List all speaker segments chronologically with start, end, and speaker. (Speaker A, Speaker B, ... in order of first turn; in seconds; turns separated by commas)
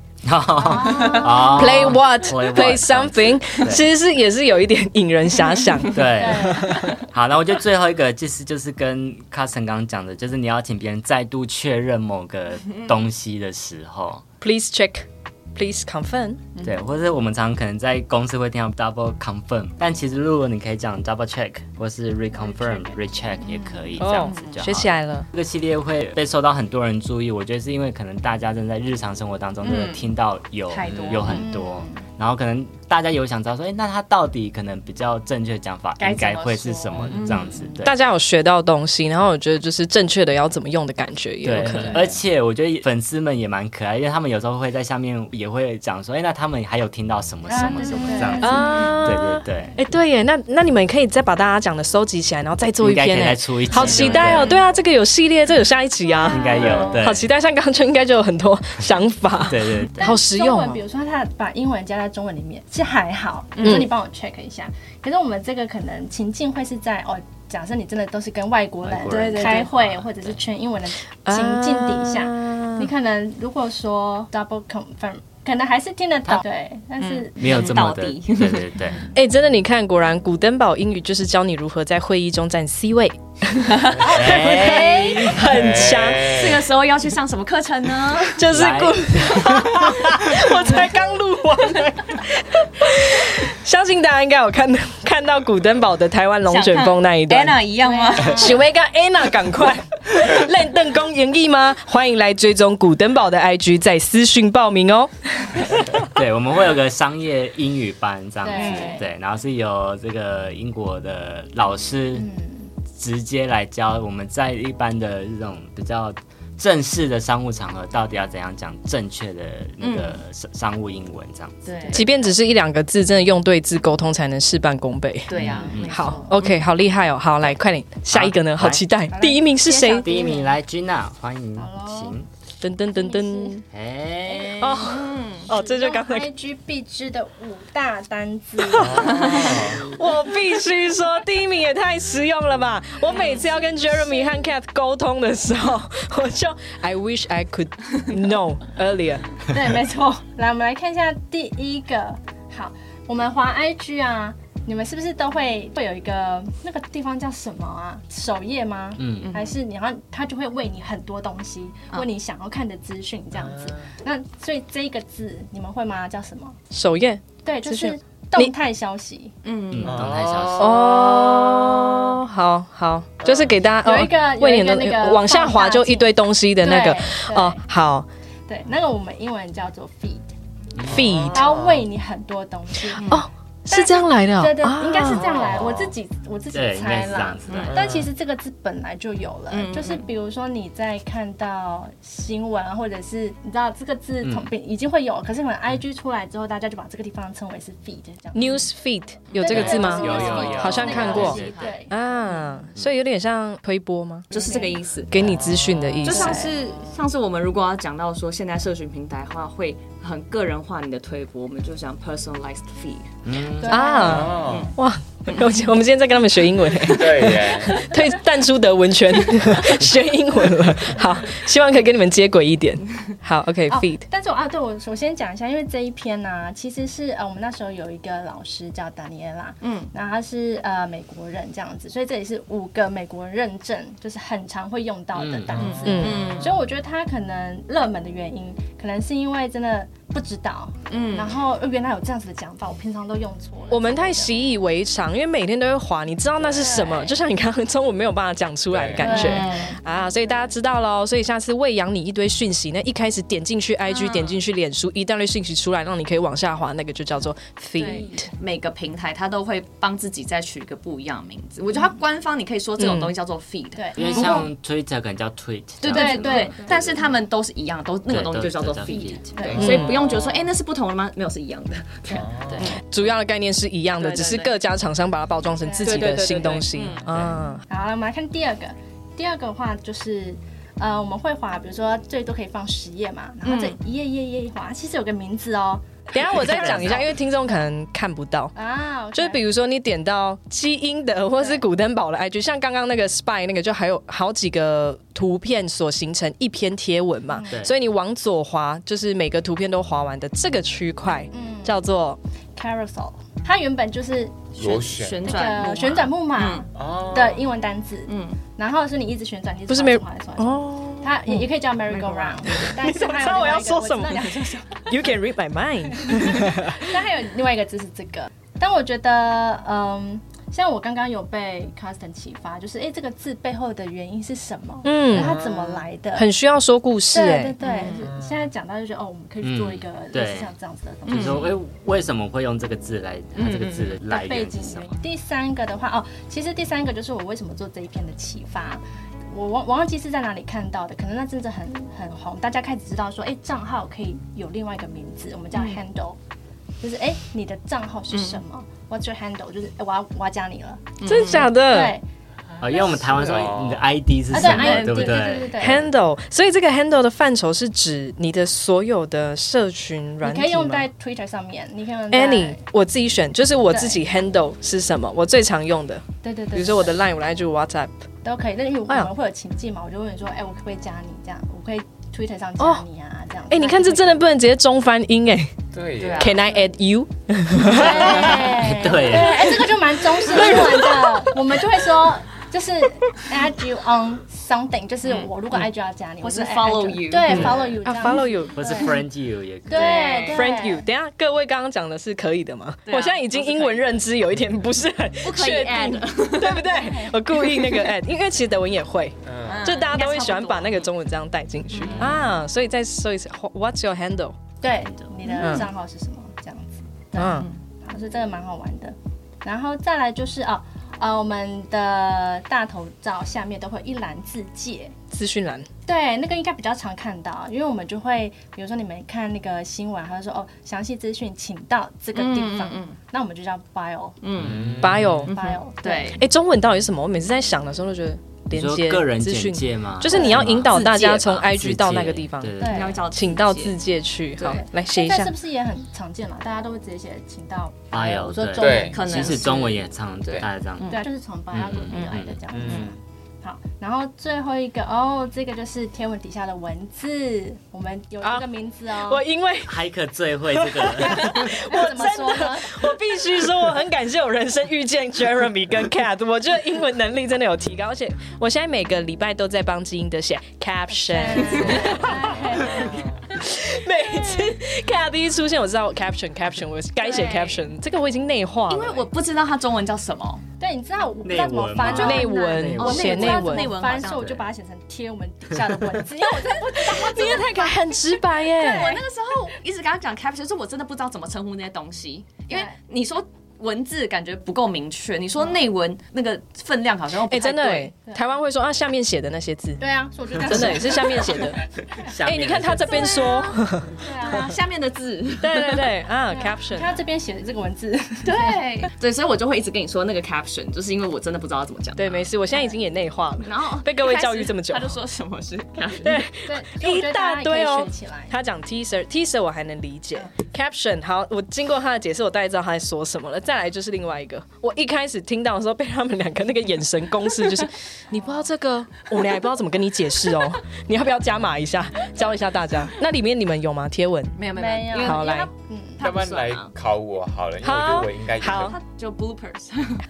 Speaker A: 0.2-3.9, Speaker B: 0.6-1.9, Speaker C: 0.8-1.3, Speaker D: 1.4-6.9, Speaker A: 5.9-14.2, Speaker B: 6.1-6.7, Speaker D: 14.4-16.4, Speaker A: 16.6-37.9, Speaker B: 22.4-22.9, Speaker B: 23.4-23.9, Speaker D: 24.0-25.3, Speaker C: 24.2-24.6, Speaker C: 29.6-30.1, Speaker C: 30.7-31.5, Speaker B: 31.3-32.0, Speaker C: 36.0-37.8, Speaker D: 37.8-42.0, Speaker A: 41.4-49.8, Speaker B: 47.5-49.1, Speaker C: 48.1-48.8, Speaker D: 48.4-60.8, Speaker A: 52.8-54.6, Speaker C: 53.9-54.6, Speaker B: 56.2-57.0, Speaker A: 56.3-57.3, Speaker A: 59.4-60.2, Speaker B: 60.0-77.3, Speaker C: 63.6-63.8, Speaker D: 63.6-63.9, Speaker A: 68.8-70.4, Speaker C: 69.1-69.7, Speaker D: 71.2-72.9, Speaker C: 77.0-78.7, Speaker A: 77.4-79.1, Speaker D: 79.1-86.4, Speaker C: 84.0-85.1, Speaker A: 84.0-85.5, Speaker B: 84.6-85.3, Speaker E: 85.4-86.6, Speaker C: 86.2-88.5, Speaker D: 88.3-97.6, Speaker A: 88.5-90.3, Speaker C: 96.5-98.6, Speaker B: 97.8-98.6, Speaker D: 98.3-106.0, Speaker A: 106.0-112.3, Speaker B: 108.4-109.1, Speaker C: 108.5-109.0, Speaker B: 112.1-112.7, Speaker A: 112.9-121.6, Speaker C: 119.8-120.2, Speaker C: 121.6-122.1, Speaker B: 121.8-122.3, Speaker D: 121.9-125.3, Speaker C: 125.3-126.6, Speaker B: 125.3-126.4, Speaker A: 125.4-126.0, Speaker D: 125.9-130.1, Speaker A: 128.1-128.9, Speaker B: 129.1-130.6, Speaker A: 130.0-132.3, Speaker B: 131.6-132.2, Speaker D: 132.6-133.6, Speaker B: 132.9-133.6, Speaker A: 133.7-134.8, Speaker B: 134.2-134.8, Speaker D: 134.6-136.3, Speaker C: 134.8-135.5, Speaker B: 135.4-139.8, Speaker D: 138.6-149.2, Speaker E: 138.8-139.8, Speaker C: 139.0-139.5, Speaker B: 143.1-144.4, Speaker C: 143.1-143.4, Speaker B: 149.5-166.6, Speaker A: 159.0-159.3, Speaker C: 159.2-159.6, Speaker E: 163.4-163.7, Speaker D: 166.7-168.5, Speaker B: 167.4-169.3, Speaker C: 169.4-170.0, Speaker A: 169.7-170.8, Speaker E: 169.8-170.8, Speaker D: 170.6-178.1, Speaker B: 171.2-171.8, Speaker E: 173.2-173.5, Speaker B: 173.8-177.6, Speaker B: 178.5-180.2, Speaker E: 180.8-181.8, Speaker D: 180.8-181.4, Speaker B: 181.3-198.7, Speaker C: 182.9-183.2, Speaker D: 183.1-185.2, Speaker E: 185.2-185.9, Speaker A: 186.5-187.9, Speaker E: 187.7-188.1, Speaker C: 189.5-190.1, Speaker A: 194.2-194.5, Speaker D: 198.3-204.2, Speaker C: 199.3-201.8, Speaker B: 199.3-202.7, Speaker A: 199.4-201.7, Speaker C: 204.3-205.1, Speaker B: 204.3-204.8, Speaker D: 205.1-206.4, Speaker C: 206.0-213.1, Speaker B: 206.1-206.5, Speaker A: 213.2-213.7, Speaker B: 213.6-214.5, Speaker D: 213.7-224.1, Speaker E: 214.0-214.7, Speaker C: 214.3-214.7, Speaker E: 216.8-217.8, Speaker B: 223.7-244.4, Speaker C: 229.6-229.9, Speaker A: 235.1-235.8, Speaker C: 235.6-236.6, Speaker D: 235.8-236.3, Speaker C: 240.9-241.4, Speaker D: 243.7-258.3, Speaker B: 246.4-247.2, Speaker E: 248.7-249.1, Speaker B: 249.0-249.8, Speaker C: 249.0-249.7, Speaker C: 253.9-254.4, Speaker B: 257.8-258.2, Speaker C: 257.8-264.5, Speaker D: 262.8-263.1, Speaker B: 263.7-264.5, Speaker A: 264.0-267.0, Speaker B: 265.8-266.8, Speaker C: 265.8-272.8, Speaker A: 268.1-269.3, Speaker B: 269.4-270.4, Speaker E: 269.4-269.8, Speaker D: 269.6-270.1, Speaker E: 272.1-272.6, Speaker D: 272.9-277.6, Speaker C: 274.0-274.6, Speaker B: 275.6-276.2, Speaker C: 275.8-277.0, Speaker A: 277.1-277.4, Speaker B: 277.7-287.0, Speaker C: 283.4-283.8, Speaker D: 286.1-288.5, Speaker A: 286.2-287.1, Speaker B: 288.5-289.4, Speaker D: 289.1-302.2, Speaker B: 291.4-291.6, Speaker B: 297.3-297.6, Speaker A: 297.5-297.7, Speaker B: 301.3-301.8, Speaker B: 302.6-304.6, Speaker E: 304.6-305.4, Speaker C: 304.6-306.6, Speaker B: 305.2-315.2, Speaker E: 306.8-307.4, Speaker C: 308.1-308.4, Speaker D: 309.7-311.5, Speaker C: 311.9-312.7, Speaker D: 312.4-316.9, Speaker B: 316.0-326.3, Speaker D: 324.8-325.4, Speaker C: 325.2-325.8, Speaker D: 326.1-327.5, Speaker B: 327.1-331.5, Speaker C: 327.6-328.1, Speaker A: 329.4-330.5, Speaker A: 331.1-335.0, Speaker C: 331.1-331.5, Speaker C: 333.4-334.0, Speaker B: 334.1-346.2, Speaker C: 345.5-345.8, Speaker B: 346.8-352.0, Speaker C: 348.1-348.4, Speaker C: 351.0-351.5, Speaker D: 351.0-351.9, Speaker A: 352.6-355.9, Speaker E: 352.6-353.8, Speaker B: 354.3-355.9, Speaker C: 354.3-355.3, Speaker D: 355.6-360.9, Speaker B: 360.2-362.6, Speaker D: 362.1-367.9, Speaker B: 363.7-364.1, Speaker B: 366.2-367.0, Speaker B: 368.2-374.2, Speaker D: 372.6-372.8, Speaker D: 373.5-375.5, Speaker E: 375.7-376.4, Speaker C: 376.0-376.4, Speaker D: 376.2-378.3, Speaker B: 376.4-376.7, Speaker B: 377.6-389.0, Speaker A: 377.9-379.6, Speaker C: 378.1-378.4, Speaker D: 380.3-381.3, Speaker C: 385.0-385.6, Speaker C: 386.2-387.6, Speaker A: 387.3-387.7, Speaker D: 387.3-388.6, Speaker A: 388.5-390.3, Speaker B: 389.7-390.8, Speaker C: 389.7-390.5, Speaker D: 390.3-404.4, Speaker C: 392.9-394.0, Speaker C: 395.2-396.8, Speaker B: 396.4-397.2, Speaker C: 397.4-397.7, Speaker E: 399.2-399.7, Speaker C: 399.4-400.9, Speaker C: 401.7-402.1, Speaker A: 401.9-402.2, Speaker B: 404.6-414.9, Speaker A: 404.8-405.1, Speaker C: 405.2-405.7, Speaker D: 405.4-405.7, Speaker D: 407.1-407.5, Speaker C: 407.2-407.6, Speaker D: 415.1-415.7, Speaker B: 415.9-424.2, Speaker C: 422.1-423.0, Speaker C: 424.2-426.2, Speaker E: 424.4-425.2, Speaker A: 424.4-424.7, Speaker D: 424.8-425.3, Speaker B: 425.2-426.2, Speaker D: 426.1-435.3, Speaker A: 428.5-433.0, Speaker B: 430.1-430.5, Speaker C: 430.1-431.4, Speaker B: 432.6-433.0, Speaker C: 432.6-433.8, Speaker C: 434.4-434.6, Speaker B: 434.5-439.4, Speaker A: 437.9-441.0, Speaker E: 438.6-439.0, Speaker C: 438.9-441.1, Speaker B: 440.9-449.2, Speaker A: 441.5-442.4, Speaker C: 441.9-442.8, Speaker E: 442.5-442.9, Speaker D: 448.2-449.8, Speaker A: 449.6-451.5, Speaker D: 450.5-462.1, Speaker B: 451.6-453.0, Speaker B: 460.9-463.1, Speaker E: 462.6-463.1, Speaker D: 463.3-469.1, Speaker C: 467.0-467.6, Speaker C: 468.7-470.4, Speaker B: 470.6-477.8, Speaker A: 471.2-473.3, Speaker C: 471.8-474.4, Speaker D: 471.9-473.7, Speaker C: 476.9-477.5, Speaker D: 476.9-479.0, Speaker B: 478.5-479.0, Speaker C: 478.6-487.9, Speaker D: 487.3-489.8, Speaker B: 489.8-492.1, Speaker D: 490.4-491.6, Speaker A: 491.9-493.1, Speaker D: 492.2-493.9, Speaker B: 492.9-494.5, Speaker C: 492.9-493.5, Speaker C: 494.0-495.8, Speaker D: 495.4-497.0, Speaker B: 496.3-498.6, Speaker C: 498.2-502.3, Speaker D: 501.9-505.0, Speaker B: 502.5-502.8, Speaker C: 503.4-506.2, Speaker D: 506.0-524.4, Speaker B: 506.4-508.4, Speaker B: 518.1-518.4, Speaker C: 524.4-526.7, Speaker B: 524.5-526.0, Speaker D: 524.9-525.5, Speaker E: 526.0-528.8, Speaker D: 527.6-528.8, Speaker C: 528.5-530.0